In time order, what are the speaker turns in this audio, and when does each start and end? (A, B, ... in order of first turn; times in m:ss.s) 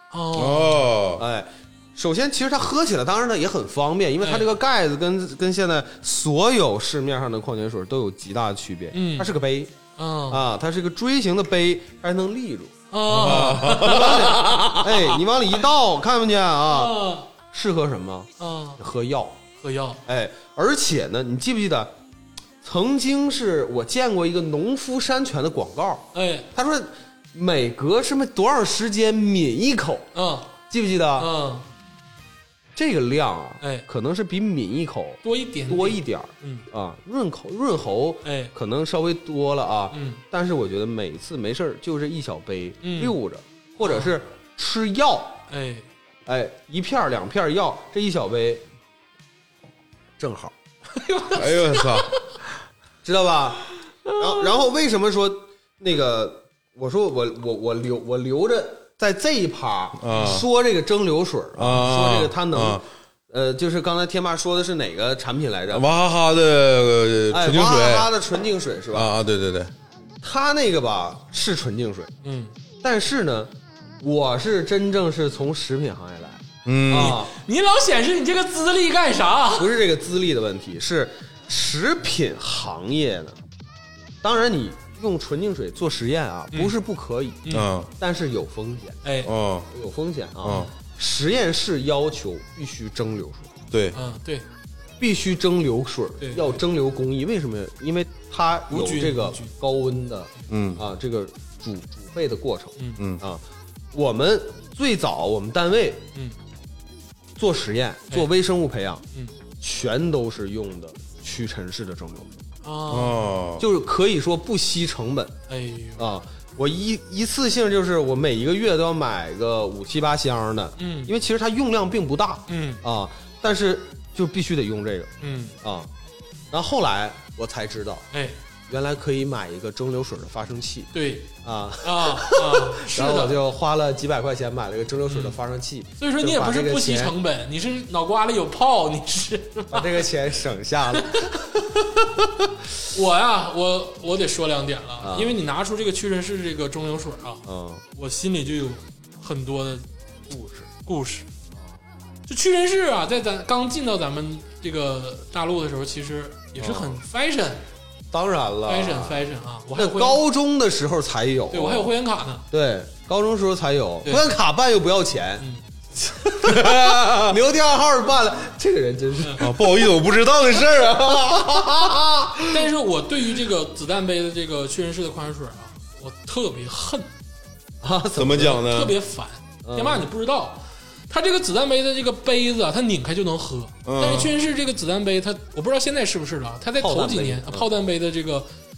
0:00.1-0:00.9 A
0:00.3-0:01.2 B
0:01.2-0:09.7 C
0:04.2-0:04.5 A
0:08.9-0:09.3 A
0:10.0-0:10.4 A
0:10.3-0:19.4 C
0:12.9-0:14.6 A
0:13.1-0:14.8 B
0:16.7-0:17.3 A
0:18.4-0:18.8 A
0:19.6-0:20.0 A
0:20.1-0:21.9 C
0:22.6-0:30.1 C
0:26.1-0:26.5 A
0:30.1-0:30.5 A
0:30.7-0:31.3 C
0:31.2-0:31.7 A
0:32.8-0:45.4 C
0:33.6-0:33.9 A
0:35.2-0:36.7 A
0:38.2-0:38.5 A
0:39.9-0:40.2 A
0:42.8-0:43.1 A
0:43.8-0:44.2 A
0:45.5-0:45.9 A
0:46.3-0:48.6 C
0:50.2-0:50.5 C
0:50.9-0:52.4 A
0:51.4-0:52.1 B
0:53.0-1:05.9 C
0:54.0-0:54.3 A
1:00.0-1:00.5 B
1:00.1-1:00.4 A
1:01.6-1:02.8 B
1:05.7-1:08.1 B
1:07.3-1:09.1 C
1:08.9-1:09.7 B
1:10.2-1:12.1 C
1:12.2-1:12.5 A
1:12.8-1:17.3 C
1:16.7-1:17.2 B
1:17.0-1:19.8 A
1:19.6-1:23.4 C
1:24.2-1:27.4 C
1:27.5-1:27.9 B
1:28.0-1:29.0 C
1:29.0-1:29.3 A
1:29.2-1:29.7 B
1:29.7-1:33.5 C
1:30.4-1:30.7 B
1:30.5-1:30.7 A
1:33.7-1:34.0 B
1:33.9-1:34.5 A
1:35.0-1:43.4 C
1:36.2-1:36.6 A
1:38.7-1:39.5 A
1:40.5-1:40.8 B
1:43.9-1:46.0 C
1:47.4-1:49.0 C
1:49.6-1:52.4 C
1:52.6-1:53.2 A
1:52.9-1:53.6 B
1:53.6-1:55.4 C
1:55.5-1:56.1 A
1:56.0-2:05.9 C
2:00.8-2:01.1 A
2:02.5-2:02.8 A
2:05.2-2:05.6 A
2:06.5-2:08.1 C
2:08.1-2:08.4 A
2:08.7-2:10.9 C
2:10.9-2:11.3 A
2:11.4-2:17.2 C
2:11.8-2:13.4 A
2:15.1-2:15.4 A
2:16.0-2:20.0 A
2:19.7-2:22.5 C
2:21.0-2:21.5 A
2:22.9-2:27.4 A
2:25.0-2:25.4 C
2:27.5-2:27.8 C
2:28.0-2:29.9 A
2:30.3-2:30.7 C
2:30.7-2:31.3 A
2:32.3-2:37.6 A
2:36.6-2:37.0 C
2:38.1-2:41.9 C
2:38.7-2:40.2 A
2:41.5-2:42.4 A
2:42.5-2:45.4 C
2:45.4-2:45.6 A
2:46.0-2:52.6 C
2:46.4-2:47.4 B
2:49.4-2:51.7 B
2:52.5-2:57.1 A
2:57.8-2:58.6 C
2:58.2-2:59.0 B
2:58.4-3:08.5 A
2:59.6-3:00.1 C
3:03.8-3:04.3 B
3:06.8-3:07.7 C